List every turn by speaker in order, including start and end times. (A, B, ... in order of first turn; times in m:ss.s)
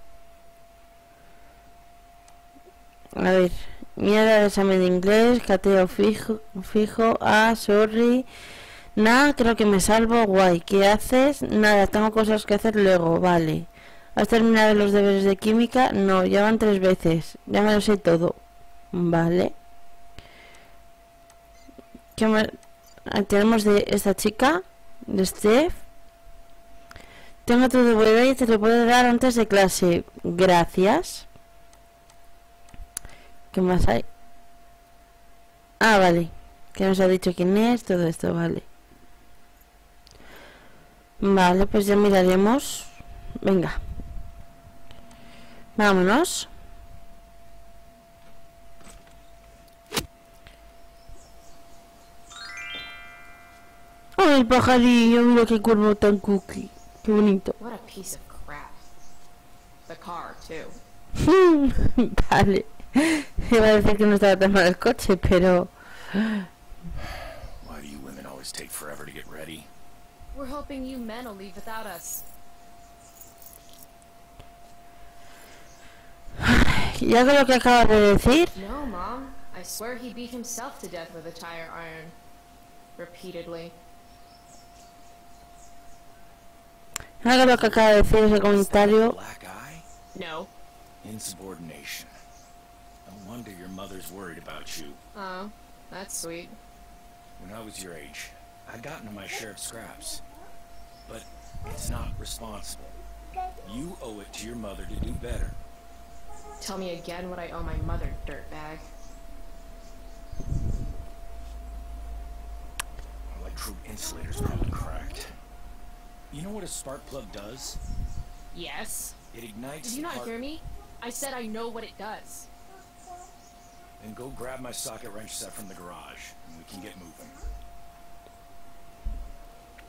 0:03.2-0:08.3 A
0:09.0-0:18.4 A
0:18.9-0:19.5 A
0:22.2-0:22.6 A
0:23.1-0:25.8 A
0:27.4-0:31.3 A
0:33.5-0:34.0 A
0:35.8-0:38.6 A
0:41.2-0:43.8 A
0:45.8-0:46.5 A
0:54.2-0:57.5 A
0:57.6-0:58.9 B
0:59.9-1:00.8 B
1:01.2-1:06.5 A
1:07.6-1:09.7 C
1:10.3-1:12.2 B
1:16.4-1:18.6 A
1:18.5-1:22.2 B
1:23.0-1:23.8 B
1:27.2-1:29.2 A
1:27.5-1:29.8 C
1:30.1-1:30.5 B
1:31.0-1:32.1 C
1:33.1-1:35.0 C
1:35.1-1:36.6 B
1:37.4-1:40.2 C
1:41.1-1:43.0 C
1:43.6-1:45.6 C
1:46.6-1:48.9 B
1:53.3-1:55.4 C
1:56.3-1:57.8 C
1:58.5-1:59.2 B
1:59.3-2:00.4 C
1:59.8-2:02.5 B
2:04.0-2:07.4 C